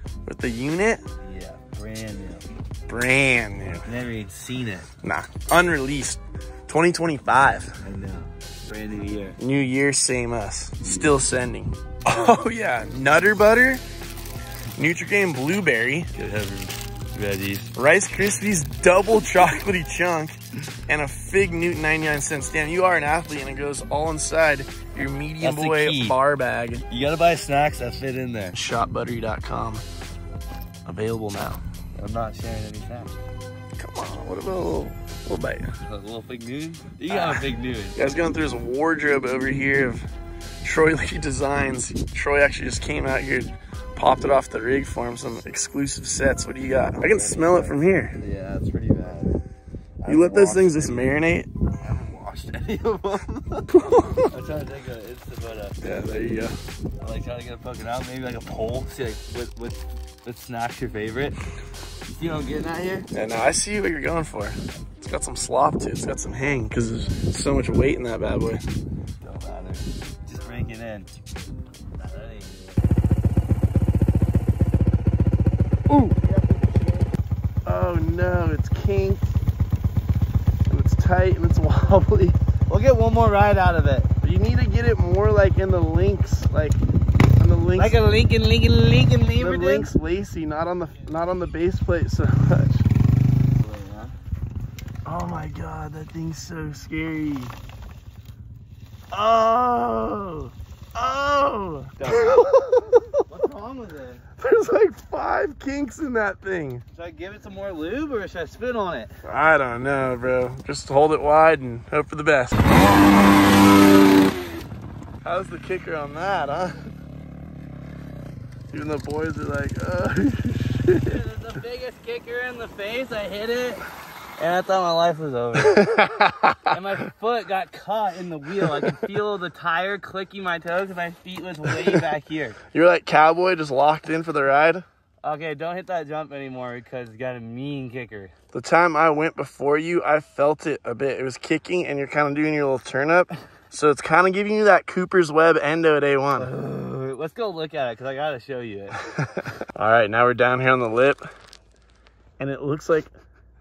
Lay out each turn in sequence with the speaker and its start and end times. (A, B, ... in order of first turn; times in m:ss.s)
0:00.2-0:01.0 A
0:01.2-0:02.4 B
0:02.9-0:03.9 A
0:03.8-0:04.9 B
0:05.0-0:07.8 A
0:07.8-0:09.4 B
0:09.4-0:13.8 A
0:14.7-0:16.1 A
0:16.2-0:17.7 B
0:17.7-0:20.4 A
0:20.9-0:26.8 A
0:25.4-0:26.2 B
0:26.9-0:28.6 B
0:28.5-0:29.8 A
0:30.8-0:31.6 A
0:32.0-0:33.2 B
0:33.8-0:35.7 A
0:35.8-0:38.0 B
0:37.1-0:40.1 A
0:40.6-0:48.2 A
0:47.1-0:49.4 B
0:50.0-0:51.1 B
0:50.0-0:51.5 A
0:51.8-0:53.7 B
0:53.7-0:54.3 A
0:54.3-0:55.8 B
0:55.8-0:56.6 A
0:57.0-1:01.4 B
1:02.1-1:03.1 B
1:03.1-1:08.6 A
1:09.2-1:11.1 B
1:12.0-1:12.8 B
1:15.9-1:16.2 A
1:16.0-1:17.1 B
1:17.6-1:19.3 A
1:20.7-1:22.4 A
1:22.7-1:24.1 B
1:24.2-1:26.8 A
1:27.4-1:28.0 A
1:27.8-1:29.9 B
1:29.4-1:32.9 A
1:33.6-1:34.2 B
1:35.0-1:37.5 A
1:39.1-1:43.2 A
1:42.0-1:44.2 B
1:44.4-1:46.8 A
1:46.9-1:49.1 B
1:49.2-1:52.6 A
1:55.2-1:56.9 A
1:58.7-2:01.2 A
2:01.0-2:03.8 B
2:04.4-2:05.9 B
2:05.6-2:06.7 A
2:06.6-2:12.6 B
2:08.6-2:09.0 A
2:11.7-2:12.0 A
2:12.7-2:14.8 A
2:15.2-2:18.3 B
2:18.5-2:26.5 A
2:26.4-2:29.0 B
2:29.1-2:31.2 A
2:32.4-2:33.1 A